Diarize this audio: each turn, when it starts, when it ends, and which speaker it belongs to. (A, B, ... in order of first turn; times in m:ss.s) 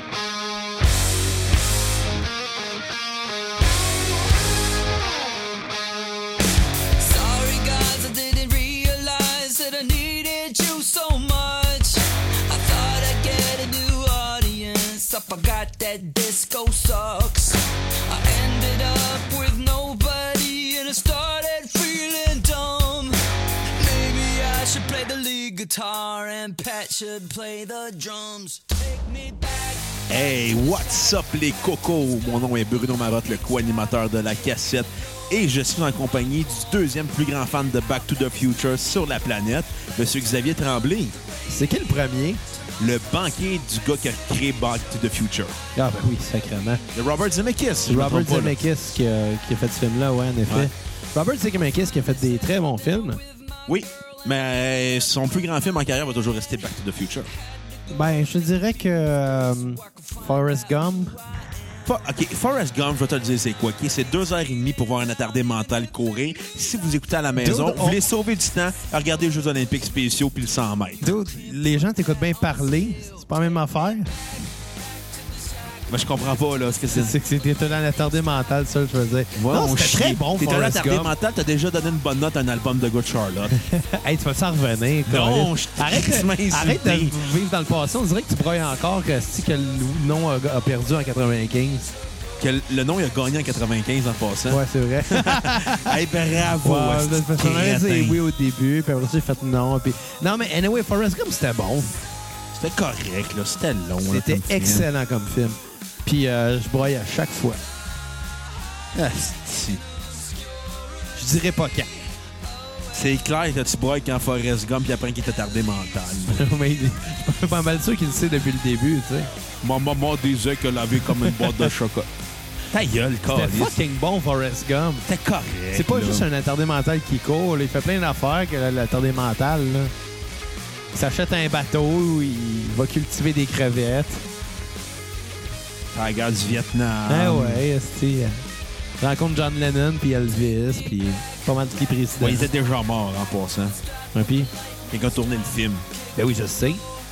0:04.0-0:04.5 A
0:07.0-0:30.0 A
0:30.1-0:41.2 B
0:41.5-0:42.4 C
0:42.8-0:45.6 B
0:45.7-0:46.8 C
0:46.9-0:48.6 B
0:47.9-0:53.2 C
0:53.7-0:57.3 B
0:57.9-1:01.2 C
1:01.8-1:11.1 B
1:07.4-1:08.0 C
1:11.0-1:14.2 C
1:15.9-1:17.1 B
1:16.9-1:21.1 C
1:19.3-1:23.5 B
1:23.5-1:31.9 C
1:25.1-1:27.2 B
1:32.4-1:38.2 B
1:34.5-1:36.0 C
1:36.5-1:42.0 C
1:42.5-1:44.8 B
1:44.0-1:47.6 C
1:48.9-1:49.8 B
1:51.2-1:51.9 C
1:52.9-1:56.4 B
1:56.3-1:59.3 C
1:59.6-2:02.1 B
2:01.1-2:01.7 C
2:02.7-2:03.8 B
2:03.3-2:05.1 C
2:05.0-2:06.3 B
2:05.7-2:09.9 C
2:10.9-2:14.2 C
2:15.9-2:17.6 B
2:17.1-2:18.4 C
2:19.0-2:22.5 C
2:22.2-2:23.8 B
2:24.1-2:24.5 C
2:24.9-2:25.8 B
2:26.1-2:26.8 C